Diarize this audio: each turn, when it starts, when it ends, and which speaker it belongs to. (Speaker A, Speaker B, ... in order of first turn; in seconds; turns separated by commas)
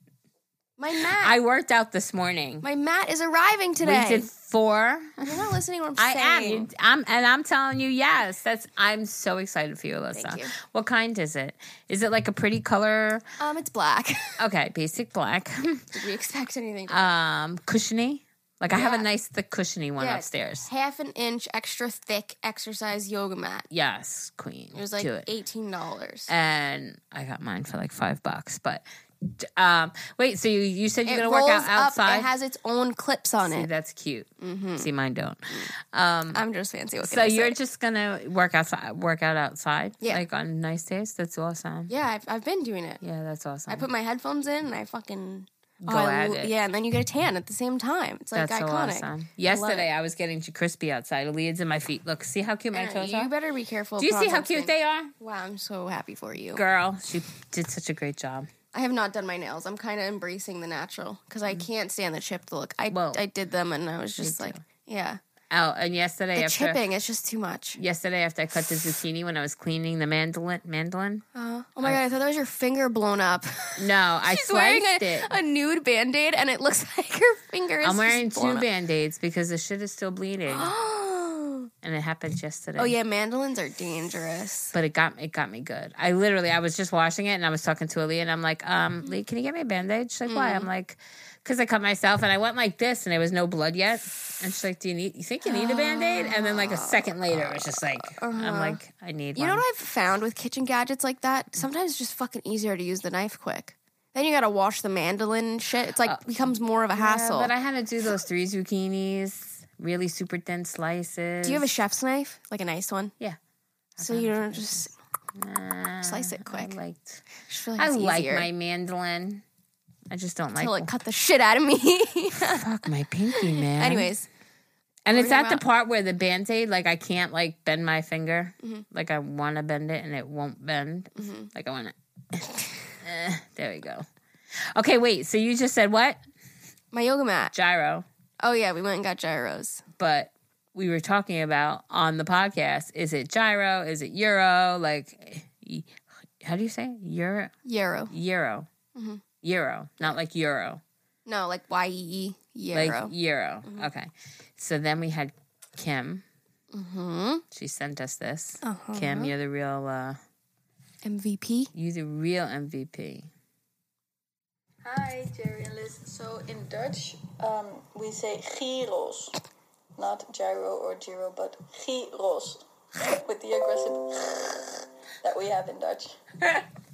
Speaker A: 0.8-1.4, Speaker B: 1.1-2.7, Speaker A: 2.6-4.3, Speaker B: 3.8-13.2, Speaker A: 5.2-6.7, Speaker A: 10.1-10.5, Speaker A: 13.4-14.4, Speaker B: 14.4-16.0, Speaker A: 15.9-17.1, Speaker B: 16.9-20.7, Speaker A: 18.7-19.1, Speaker A: 20.0-23.7, Speaker B: 23.7-25.3, Speaker A: 24.8-26.3, Speaker B: 26.3-32.3, Speaker A: 31.1-33.7, Speaker B: 33.4-36.4, Speaker A: 34.4-34.9, Speaker A: 36.3-37.6, Speaker B: 37.0-41.9, Speaker A: 41.9-43.0, Speaker B: 43.0-43.9, Speaker A: 43.7-49.9, Speaker B: 45.8-46.5, Speaker B: 48.3-53.3, Speaker A: 52.7-56.6, Speaker B: 54.0-55.1, Speaker B: 56.5-58.5, Speaker A: 58.7-65.2, Speaker B: 62.9-63.2, Speaker B: 64.2-64.6, Speaker B: 65.5-66.8, Speaker A: 66.3-67.8, Speaker B: 67.8-71.2, Speaker A: 71.3-78.7, Speaker B: 73.8-75.3, Speaker B: 77.8-80.7, Speaker A: 80.5-81.7, Speaker B: 81.8-83.0, Speaker A: 82.8-84.7, Speaker B: 84.7-99.6, Speaker A: 90.3-90.7, Speaker A: 95.4-98.8, Speaker A: 99.4-107.5, Speaker B: 106.0-111.7, Speaker A: 111.4-113.1, Speaker B: 114.0-114.8, Speaker A: 114.0-114.9, Speaker B: 115.3-117.2, Speaker A: 116.0-116.8, Speaker A: 117.5-118.5, Speaker B: 117.8-119.4, Speaker B: 120.1-120.9, Speaker A: 120.6-122.7, Speaker B: 122.3-124.1, Speaker A: 123.3-124.3, Speaker B: 125.0-132.5, Speaker A: 125.1-125.6, Speaker A: 131.2-131.5, Speaker B: 133.0-134.1, Speaker B: 134.7-136.2, Speaker A: 136.9-137.5, Speaker B: 137.5-138.1, Speaker A: 138.4-139.8, Speaker B: 140.0-147.5, Speaker A: 147.7-148.1, Speaker B: 148.1-148.7, Speaker A: 149.0-149.2, Speaker B: 149.4-150.8, Speaker A: 151.3-153.1, Speaker B: 152.7-156.2, Speaker A: 156.7-157.4, Speaker B: 157.5-160.2, Speaker A: 158.6-159.3, Speaker A: 161.1-161.7, Speaker B: 161.7-163.3, Speaker C: 164.8-169.4, Speaker C: 170.0-176.7